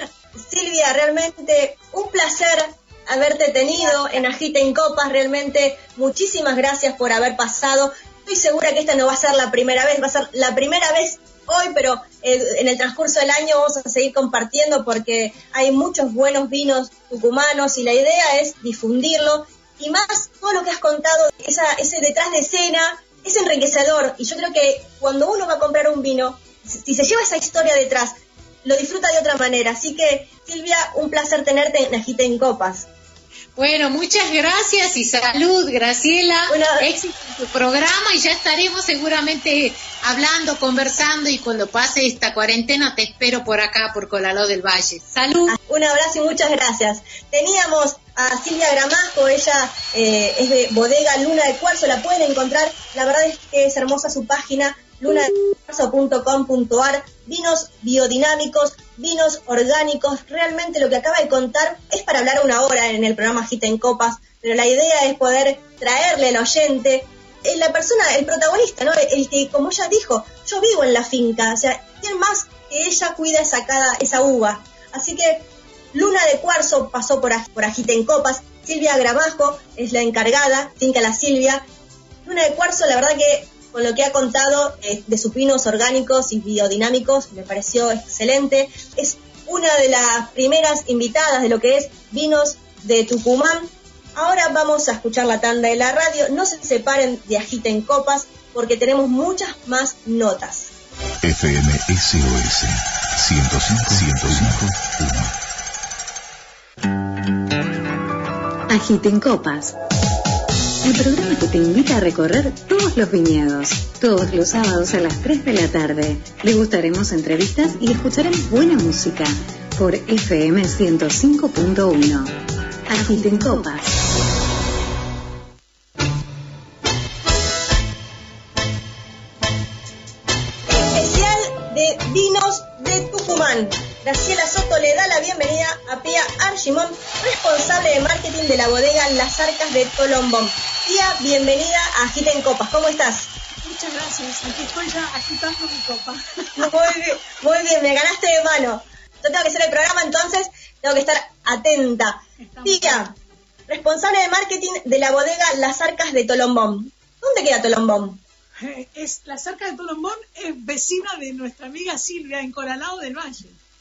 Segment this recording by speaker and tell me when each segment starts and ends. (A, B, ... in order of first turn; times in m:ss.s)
0:00.4-0:32.9 A
0:33.5-0:45.6 B
0:36.5-0:36.9 A
0:45.5-1:21.6 A
1:22.2-1:40.7 A
1:41.2-1:45.3 C
1:48.7-1:49.7 D
1:50.8-2:02.4 D
2:02.9-2:03.9 D
2:10.8-2:23.3 A
2:23.6-2:26.7 E
2:26.6-2:33.1 A
2:32.4-2:33.1 E
2:33.7-2:38.2 A
2:38.6-2:43.6 E